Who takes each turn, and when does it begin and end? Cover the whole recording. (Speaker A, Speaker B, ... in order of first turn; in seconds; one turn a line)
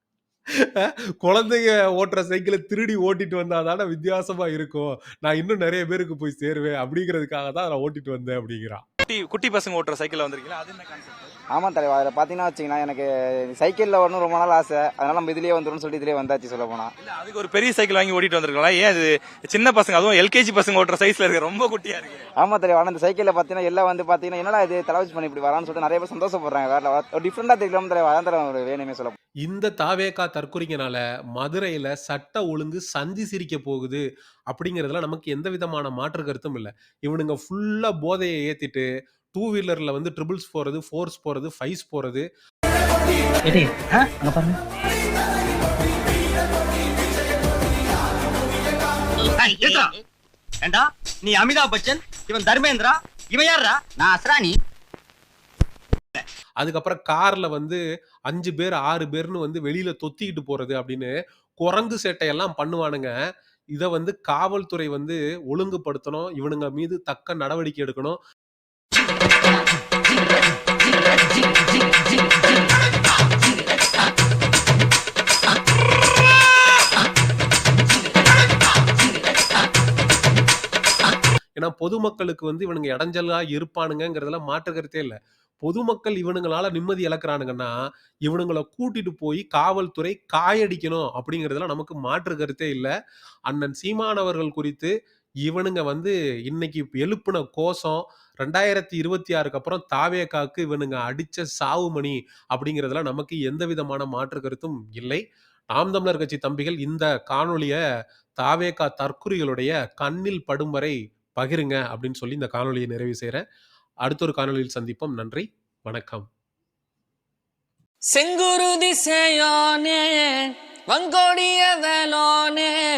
Speaker A: 0.6-8.8
Speaker B: 9.1-11.3
Speaker C: 11.5-16.9
Speaker B: 17.1-22.2
Speaker C: 22.4-29.1
Speaker A: 29.4-42.2
Speaker D: 49.4-50.0
Speaker D: 50.6-54.6
Speaker A: 56.6-63.1
Speaker A: 63.7-68.2
Speaker A: 81.6-87.7
Speaker A: 88.3-92.9
Speaker A: 93.5-94.9
Speaker A: 95.5-105.2
Speaker A: 105.7-107.8
Speaker A: 108.4-113.4
Speaker A: 114.0-116.3
Speaker E: 118.1-122.7